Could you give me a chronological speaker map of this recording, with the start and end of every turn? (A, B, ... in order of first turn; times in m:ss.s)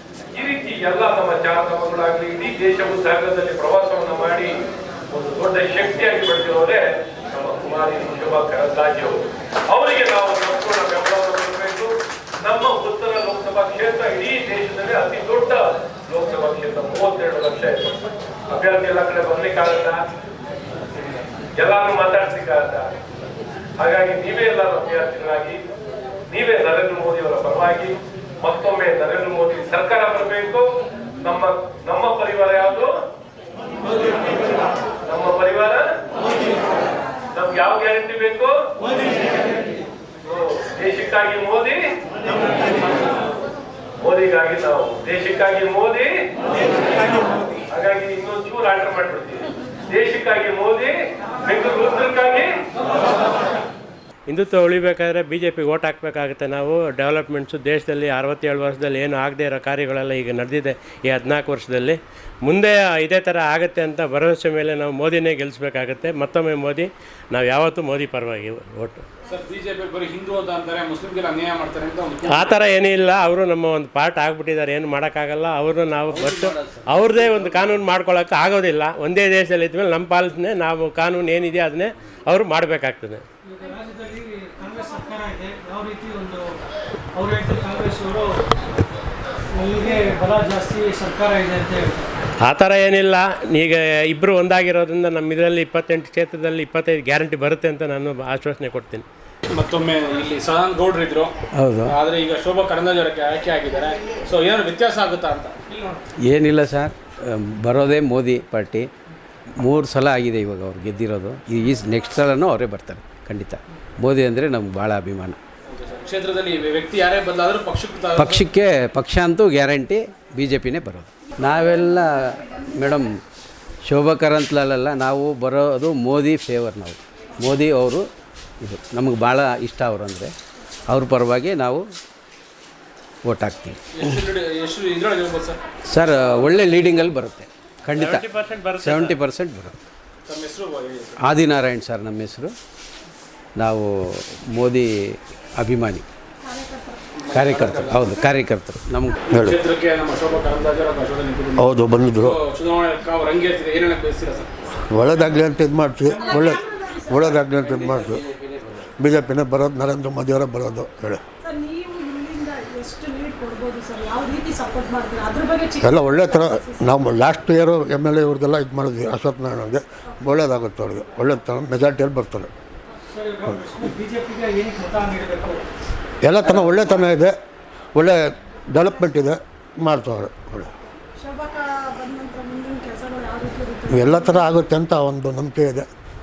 0:00.3-0:18.0 A
0:18.5-0:20.0 A
0:21.6-0:22.9 A
0:23.8-0:25.6 A
0:26.3-0:30.7 A
0:31.2-0:33.0 A
0:35.0-0:35.9 A
0:37.3-0:38.6 A
0:40.2-0:41.9 A
0:44.0-0:46.2 A
0:47.7-0:52.6 A
0:54.3-1:09.0 B
1:09.3-1:12.6 C
1:12.2-1:23.2 B
1:16.2-1:16.5 D
1:23.5-1:26.6 E
1:27.2-1:28.4 E
1:29.6-1:32.0 E
1:32.4-1:39.0 B
1:39.5-1:41.3 C
1:41.9-1:46.0 C
1:46.3-1:48.9 D
1:49.6-1:55.4 D
1:55.7-1:58.5 C
1:58.2-2:03.2 D
2:03.9-2:08.0 D
2:08.6-2:10.3 D
2:10.9-2:11.8 D
2:13.3-2:14.1 D
2:14.0-2:15.6 C
2:15.9-2:17.5 D
2:17.9-2:19.2 B
2:18.9-2:19.8 D
2:20.3-2:21.2 C
2:21.2-2:22.5 D
2:23.6-2:26.0 D
2:26.5-2:26.9 F
2:27.2-2:28.2 C
2:27.3-2:29.2 D
2:29.3-2:29.6 G
2:29.3-2:34.5 C
2:31.6-2:32.4 G
2:34.8-2:38.2 G
2:36.2-2:37.1 F
2:38.2-2:38.8 D
2:39.0-2:41.2 G
2:41.4-2:45.8 F
2:45.8-2:52.5 G
2:53.1-2:55.7 E
2:56.2-2:57.3 G
2:58.0-3:00.7 G
3:01.2-3:04.4 F
3:03.9-3:05.9 G